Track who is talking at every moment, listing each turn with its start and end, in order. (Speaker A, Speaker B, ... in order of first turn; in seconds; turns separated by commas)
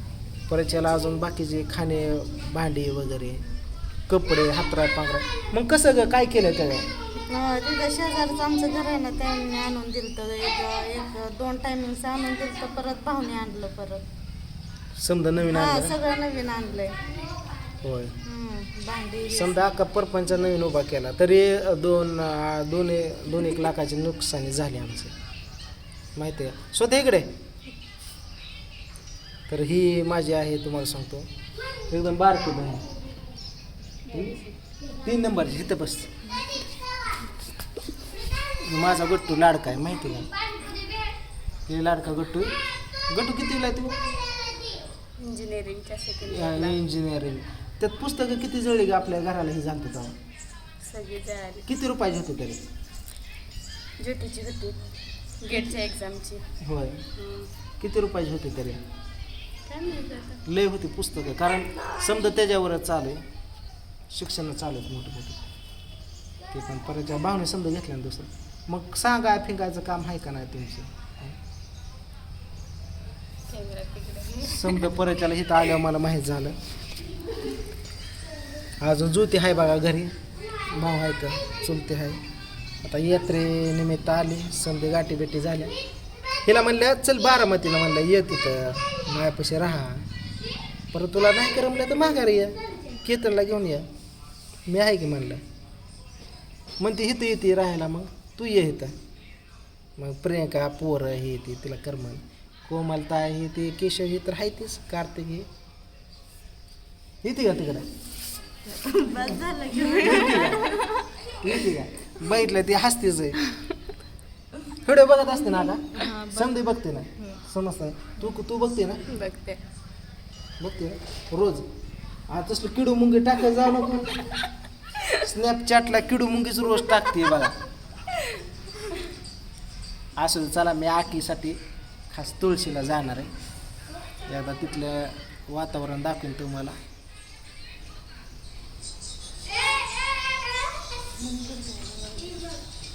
Speaker A: 0.5-3.4, Speaker A: 4.1-6.9, Speaker B: 7.2-14.0, Speaker A: 15.0-15.9, Speaker B: 15.4-17.0, Speaker A: 17.8-18.1, Speaker B: 18.2-19.7, Speaker A: 19.3-25.1, Speaker A: 26.1-27.3, Speaker A: 29.5-31.3, Speaker A: 31.9-32.8, Speaker C: 34.0-34.5, Speaker A: 34.1-34.4, Speaker A: 35.0-36.1, Speaker A: 38.6-40.3, Speaker A: 41.7-42.5, Speaker A: 43.1-44.0, Speaker C: 45.2-46.8, Speaker A: 46.2-50.1, Speaker C: 50.8-51.7, Speaker A: 51.6-52.6, Speaker C: 54.0-54.8, Speaker C: 55.4-56.4, Speaker B: 55.5-55.7, Speaker A: 56.6-57.0, Speaker C: 57.1-57.5, Speaker A: 57.8-58.8, Speaker C: 59.7-60.4, Speaker A: 60.4-63.2, Speaker A: 64.1-65.4, Speaker A: 66.5-71.3, Speaker C: 73.5-74.7, Speaker A: 74.4-76.5, Speaker A: 78.8-80.1, Speaker A: 80.7-82.2, Speaker A: 82.8-85.7, Speaker A: 86.4-90.0, Speaker A: 90.9-93.9, Speaker A: 94.7-95.4, Speaker A: 96.8-98.9, Speaker A: 100.0-105.5, Speaker A: 107.2-107.8, Speaker B: 108.6-111.6, Speaker A: 109.8-110.7, Speaker A: 111.4-113.5, Speaker A: 114.8-119.0, Speaker B: 115.9-117.4, Speaker B: 119.1-119.4, Speaker C: 119.1-119.6, Speaker A: 120.6-121.7, Speaker A: 122.3-124.2, Speaker A: 125.1-127.5, Speaker A: 130.2-131.6, Speaker A: 132.1-133.3, Speaker A: 134.2-136.8, Speaker B: 141.2-142.4